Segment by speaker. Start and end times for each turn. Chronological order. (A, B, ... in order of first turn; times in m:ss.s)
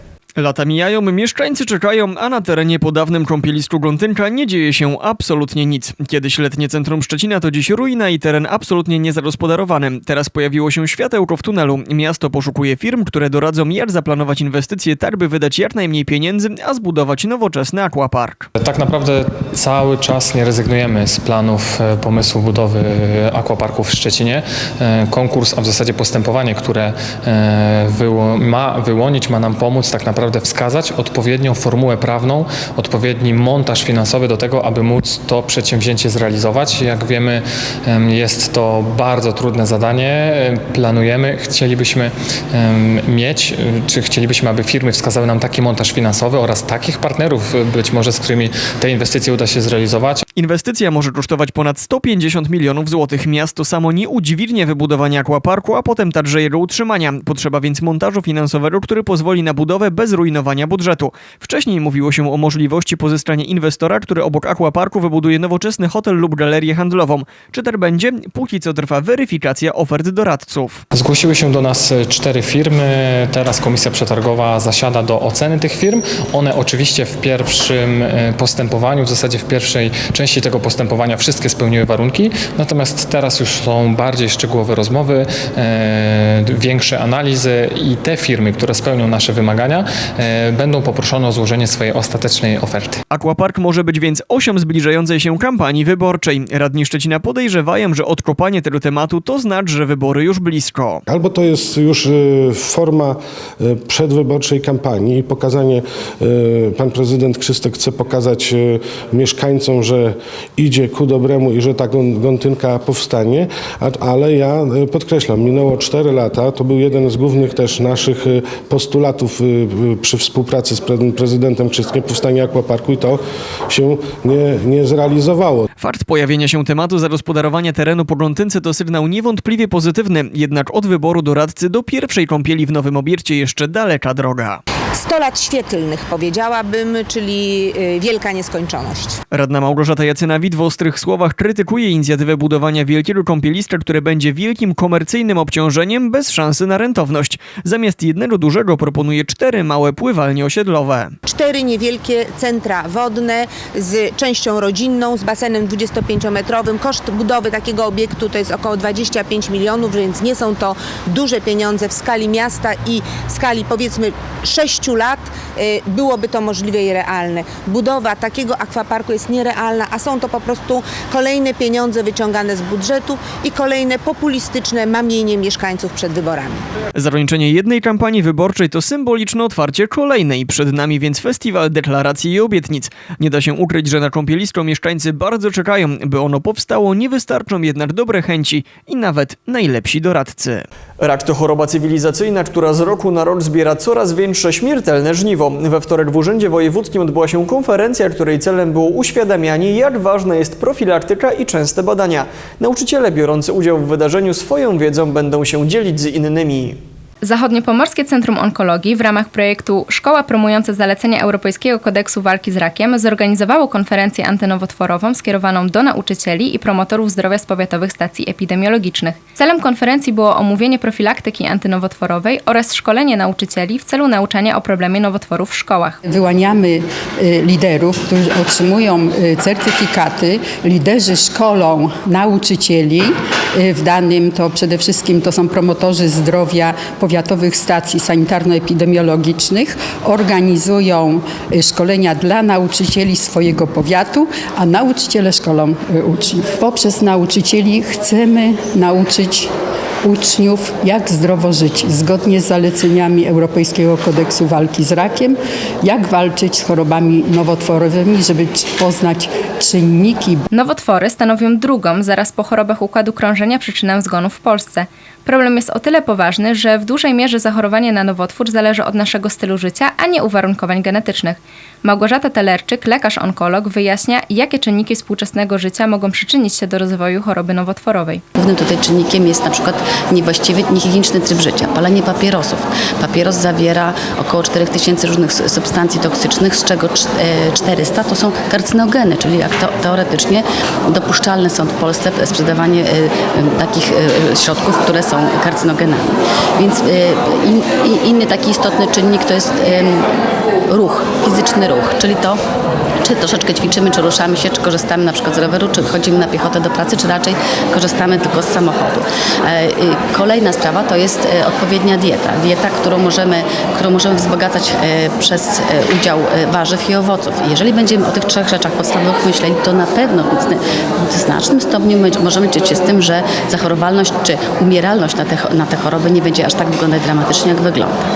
0:00.4-0:18.5 A
0:18.6-0:50.2 B
0:50.4-1:10.8 A
1:10.9-1:33.0 B
1:33.1-1:41.0 A
1:41.1-2:05.7 C
2:05.8-2:14.6 A
2:14.9-2:19.2 D
2:19.3-2:31.1 A
2:31.3-2:56.6 D
2:56.9-3:26.8 A
3:27.2-3:46.0 E
3:46.0-4:09.5 F
4:10.0-4:20.4 F
4:20.5-4:38.2 E
4:38.3-5:00.1 G
5:00.7-5:02.4 G
5:03.0-5:28.0 G